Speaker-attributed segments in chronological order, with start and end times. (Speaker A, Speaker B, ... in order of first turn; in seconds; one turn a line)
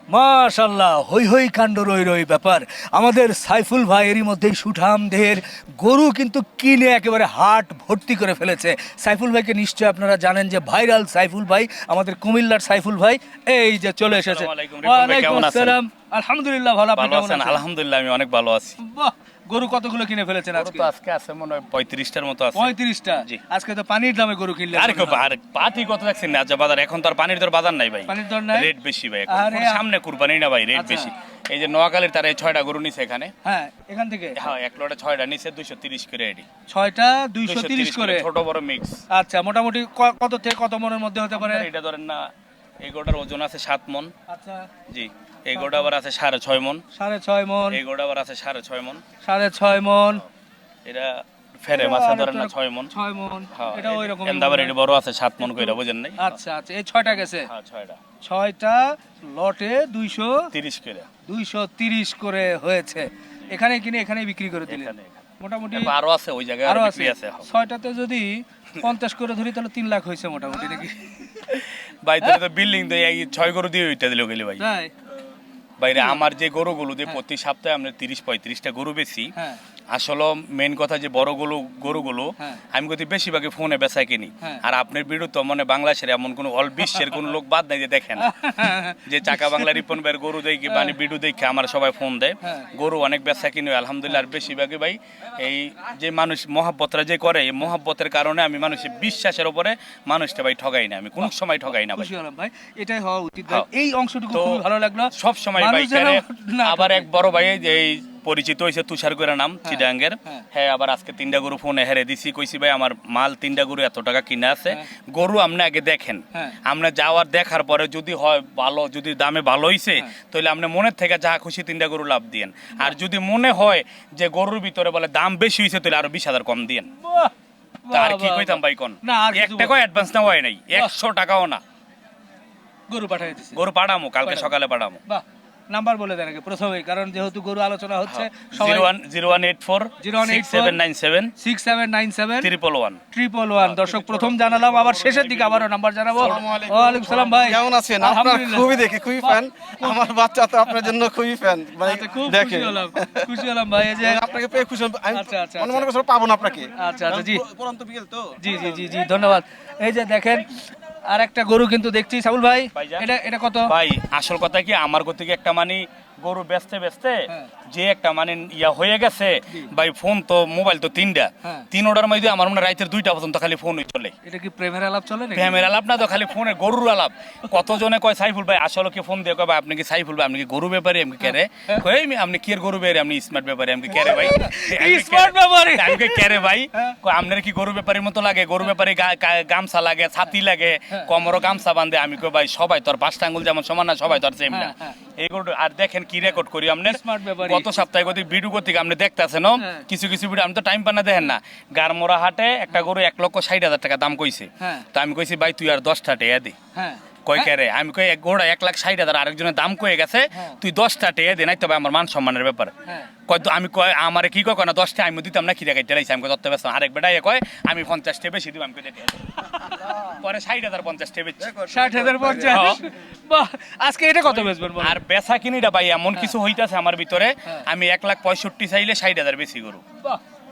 Speaker A: 0.1-17.6
Speaker B: 14.1-15.8
Speaker B: 16.9-18.8
Speaker A: 18.8-20.9
Speaker B: 20.5-23.4
Speaker A: 22.6-25.2
Speaker B: 24.7-33.3
Speaker A: 28.1-28.7
Speaker A: 29.3-29.8
Speaker A: 30.8-31.1
Speaker A: 33.5-34.4
Speaker B: 34.4-36.5
Speaker A: 36.7-38.3
Speaker B: 37.4-39.0
Speaker A: 39.1-41.7
Speaker B: 41.3-42.3
Speaker B: 42.8-44.1
Speaker A: 44.3-44.7
Speaker B: 44.9-46.8
Speaker A: 45.6-45.9
Speaker A: 46.9-47.8
Speaker B: 47.7-49.0
Speaker A: 49.2-50.2
Speaker B: 50.9-52.9
Speaker A: 51.7-54.8
Speaker B: 53.5-56.3
Speaker A: 55.4-57.5
Speaker B: 57.5-58.0
Speaker A: 58.2-60.5
Speaker B: 60.5-61.1
Speaker A: 61.3-66.0
Speaker B: 64.7-67.5
Speaker A: 66.7-71.7
Speaker B: 72.0-74.7
Speaker A: 74.6-74.9
Speaker B: 75.8-79.3
Speaker A: 76.0-76.2
Speaker B: 79.9-102.1
Speaker A: 88.2-89.9
Speaker A: 101.2-107.1
Speaker B: 104.3-126.9
Speaker A: 109.7-110.4
Speaker A: 127.0-127.3
Speaker A: 127.9-129.7
Speaker B: 127.9-131.6
Speaker A: 132.9-133.6
Speaker B: 133.5-135.0
Speaker A: 134.2-134.5
Speaker A: 135.1-138.9
Speaker B: 138.1-141.3
Speaker A: 140.0-140.8
Speaker A: 141.4-142.5
Speaker B: 142.4-143.0
Speaker A: 143.1-150.1
Speaker B: 143.6-145.7
Speaker C: 146.2-153.4
Speaker A: 150.6-150.9
Speaker A: 151.8-154.2
Speaker C: 154.0-158.5
Speaker A: 155.1-155.9
Speaker A: 156.8-157.4
Speaker A: 158.4-163.7
Speaker B: 162.7-163.1
Speaker B: 163.7-174.1
Speaker A: 174.2-175.7
Speaker B: 175.3-206.6
Speaker A: 183.9-186.9
Speaker A: 194.5-195.0
Speaker A: 196.9-197.7
Speaker A: 206.8-207.4
Speaker B: 207.3-212.7
Speaker B: 213.3-222.8
Speaker A: 221.6-225.0
Speaker B: 224.2-229.8